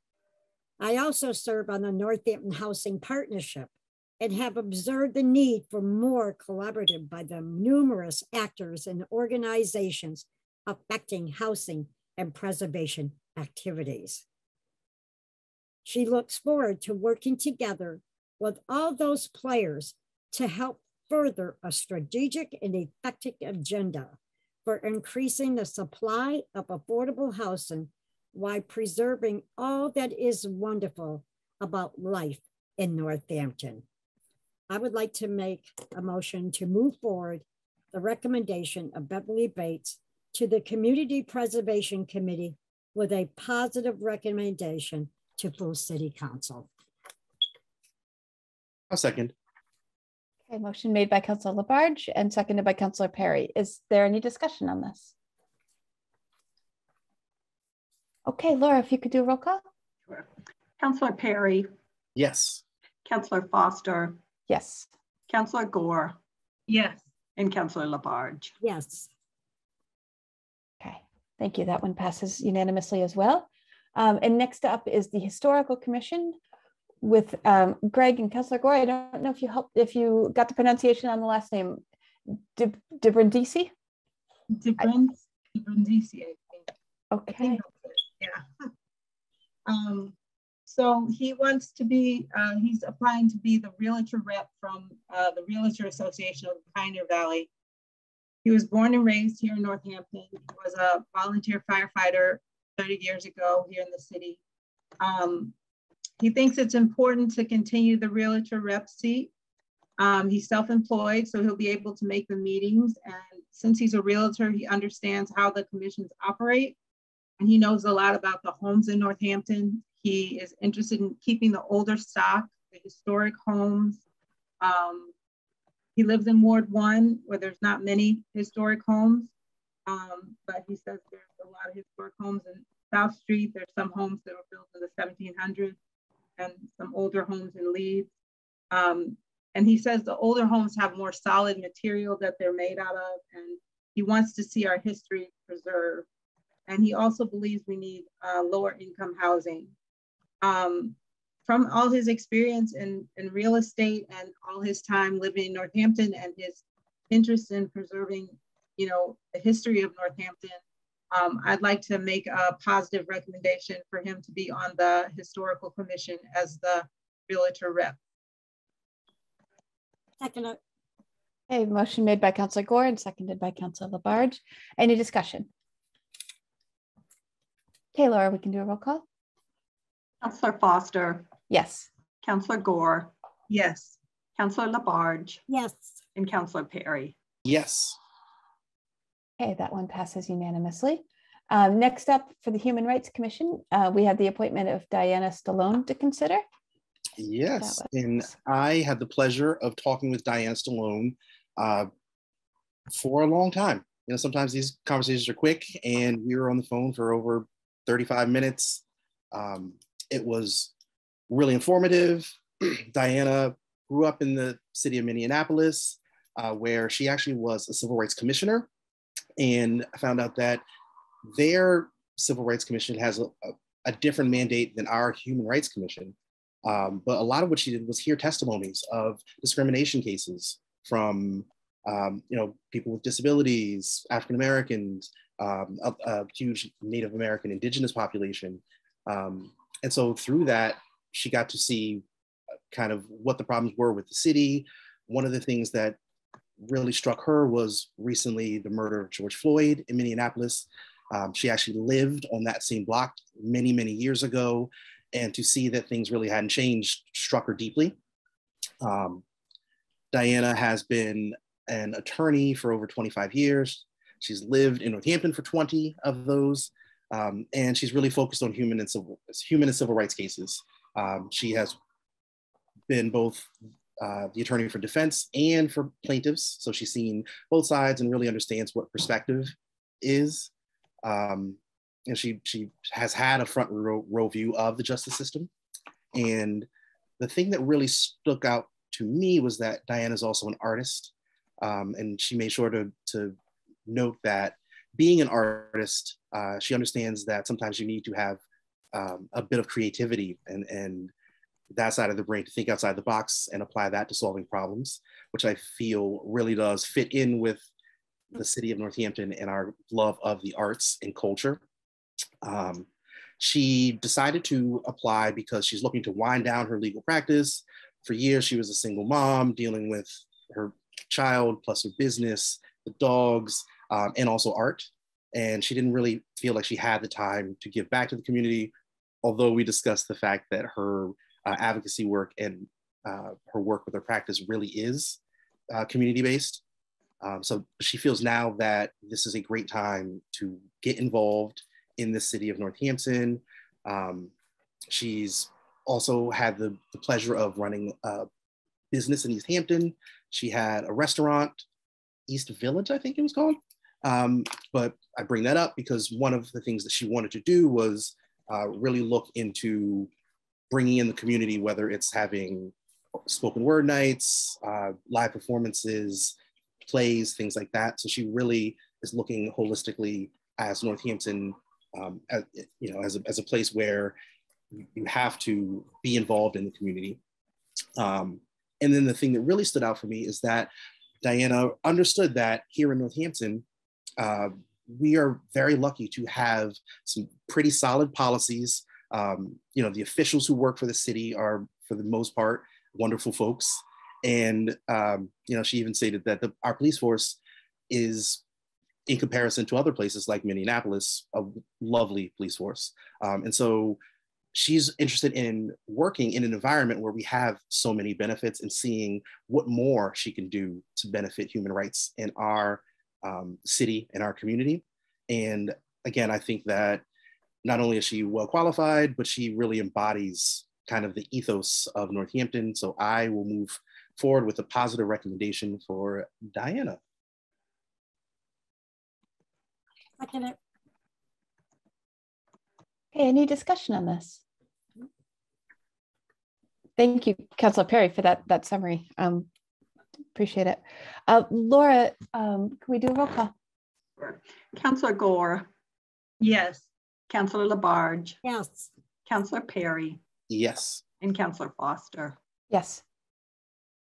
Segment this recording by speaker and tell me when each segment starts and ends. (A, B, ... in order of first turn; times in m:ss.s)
0:00.8-0:14.2 A
0:15.8-0:33.8 A
0:34.7-0:46.7 A
0:48.9-0:49.3 B
0:50.5-0:55.1 C
0:58.3-0:59.6 C
1:00.8-1:01.7 D
1:02.2-1:02.6 B
1:03.1-1:04.2 D
1:04.5-1:04.9 C
1:05.3-1:06.2 D
1:06.7-1:08.5 D
1:08.6-1:09.1 A
1:10.8-1:16.4 C
1:17.0-1:23.7 C
1:24.5-1:26.6 E
1:27.1-1:27.6 C
1:27.4-1:28.5 E
1:29.7-1:30.1 E
1:30.7-1:37.5 E
1:38.4-1:44.4 E
1:45.0-1:45.5 E
1:46.2-1:49.3 E
1:50.0-1:56.8 E
1:57.4-2:04.0 E
2:04.6-2:05.1 E
2:06.0-2:09.3 E
2:09.9-2:15.8 E
2:16.4-2:18.1 E
2:18.7-2:26.1 E
2:26.7-2:29.7 E
2:30.4-2:40.6 E
2:41.1-2:48.0 E
2:50.2-2:50.6 A
2:51.5-2:55.5 C
2:57.9-2:59.0 C
3:00.2-3:01.3 D
3:01.5-3:01.9 C
3:02.2-3:05.4 D
3:05.5-3:06.0 A
3:06.2-3:07.2 D
3:07.4-3:08.0 B
3:09.4-3:16.4 C
3:17.2-3:21.9 B
3:17.6-3:17.9 C
3:22.9-3:30.7 B
3:31.3-3:38.7 B
3:39.4-3:40.6 B
3:41.3-4:02.0 B
4:02.7-4:06.0 B
4:06.6-4:18.0 B
4:18.8-4:19.2 B
4:20.1-4:31.8 B
4:32.9-4:40.5 B
4:41.0-4:45.5 B
4:46.1-4:46.7 B
4:47.2-4:53.4 B
4:53.9-4:58.4 B
4:58.9-5:01.1 B
5:01.7-5:07.7 B
5:08.3-5:11.6 B
5:12.4-5:12.9 B
5:13.4-5:36.6 B
5:37.2-5:44.3 B
5:44.9-5:48.3 B
5:48.9-5:51.6 B
5:52.3-6:00.1 B
6:00.7-6:02.7 B
6:03.3-6:14.2 B
6:14.8-6:17.2 B
6:18.0-6:20.7 B
6:21.2-6:23.6 B
6:24.2-6:37.4 B
6:37.9-6:38.4 B
6:39.1-6:44.0 B
6:44.5-6:57.0 B
6:57.6-7:07.0 B
7:10.2-7:10.6 A
7:13.1-7:14.4 C
7:17.0-7:19.5 C
7:20.4-7:23.5 C
7:24.2-7:25.7 D
7:26.4-7:28.4 D
7:28.4-7:28.9 A
7:29.3-7:30.2 D
7:30.5-7:31.0 B
7:31.2-7:32.4 D
7:32.7-7:33.0 C